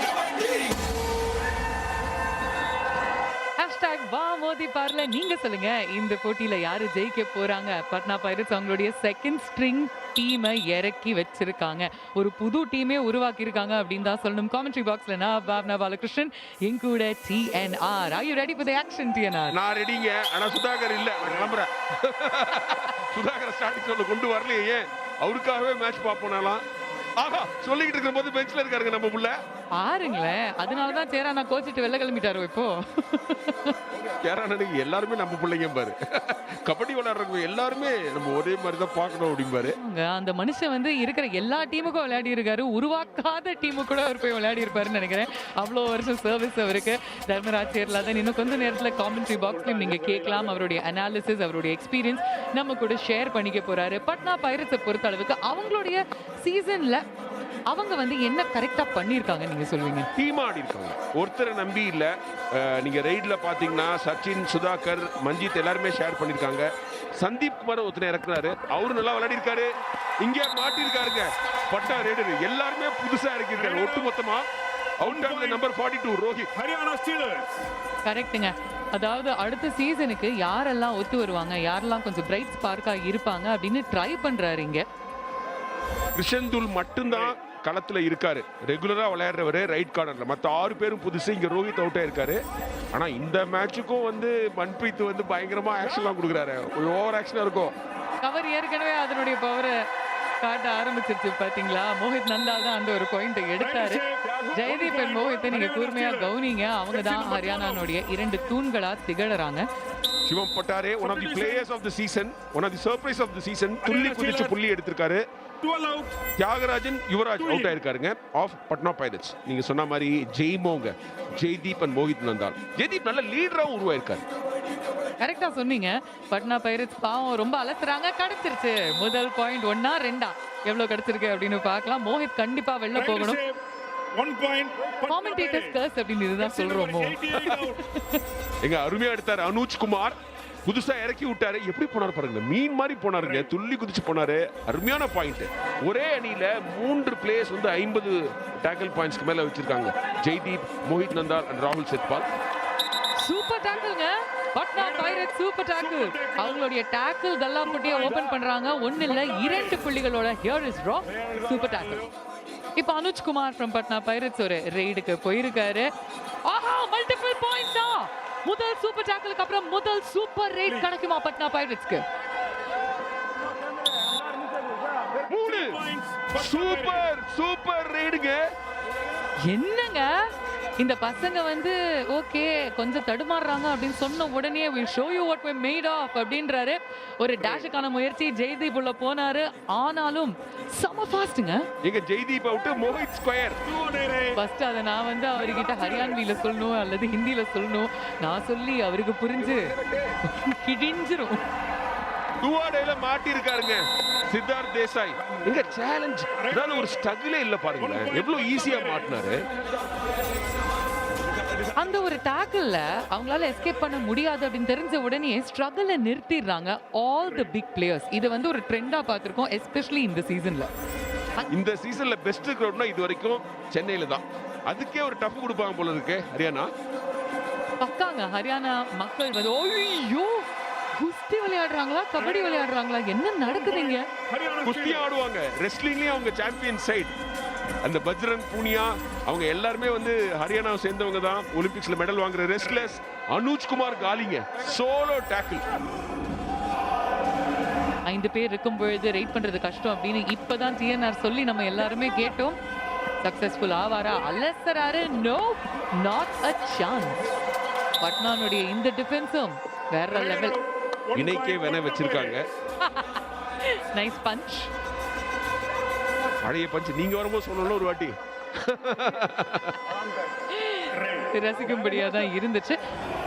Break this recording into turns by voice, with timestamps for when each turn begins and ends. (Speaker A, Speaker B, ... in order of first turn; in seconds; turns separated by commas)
Speaker A: 3.6-19.6, Speaker B: 19.5-26.6, Speaker B: 27.2-29.3, Speaker A: 29.7-33.8, Speaker B: 34.2-39.8, Speaker A: 39.8-57.0, Speaker A: 57.7-60.1, Speaker B: 60.1-69.7, Speaker B: 70.2-74.5, Speaker C: 73.5-74.1, Speaker B: 75.0-76.5, Speaker C: 75.0-75.6, Speaker C: 76.5-77.6, Speaker A: 78.0-84.8, Speaker B: 86.1-92.4, Speaker B: 92.9-97.7, Speaker A: 98.2-99.8, Speaker A: 100.4-109.7, Speaker C: 103.6-106.3, Speaker C: 106.9-107.9, Speaker B: 110.2-115.2, Speaker C: 111.0-111.7, Speaker C: 113.8-114.6, Speaker C: 115.6-116.2, Speaker B: 116.4-124.2, Speaker C: 117.4-117.8, Speaker A: 125.2-133.4, Speaker C: 132.9-133.6, Speaker C: 134.1-135.8, Speaker A: 135.1-138.2, Speaker C: 136.4-137.8, Speaker B: 138.6-152.3, Speaker C: 143.2-143.5, Speaker A: 153.2-162.1, Speaker C: 154.8-156.7, Speaker C: 157.7-158.3, Speaker C: 159.1-159.8, Speaker C: 161.2-162.1, Speaker A: 162.8-165.9, Speaker A: 166.4-172.0, Speaker B: 175.3-175.8, Speaker C: 175.3-177.1, Speaker B: 176.3-178.4, Speaker A: 179.4-191.6, Speaker B: 191.8-193.6, Speaker C: 193.7-194.4, Speaker A: 194.3-201.4, Speaker C: 195.4-196.2, Speaker B: 202.4-209.4, Speaker C: 206.4-207.0, Speaker C: 207.8-209.1, Speaker A: 211.8-220.7, Speaker B: 221.5-226.7, Speaker A: 227.8-234.1, Speaker C: 232.2-232.6, Speaker C: 233.4-235.1, Speaker B: 234.6-237.1, Speaker B: 237.8-245.6, Speaker C: 242.6-242.9, Speaker A: 248.1-252.6, Speaker A: 253.2-257.2, Speaker A: 258.0-260.6, Speaker C: 260.1-262.4, Speaker B: 261.1-262.4, Speaker A: 262.8-264.7, Speaker B: 266.4-269.8, Speaker A: 270.5-272.8, Speaker C: 270.9-271.3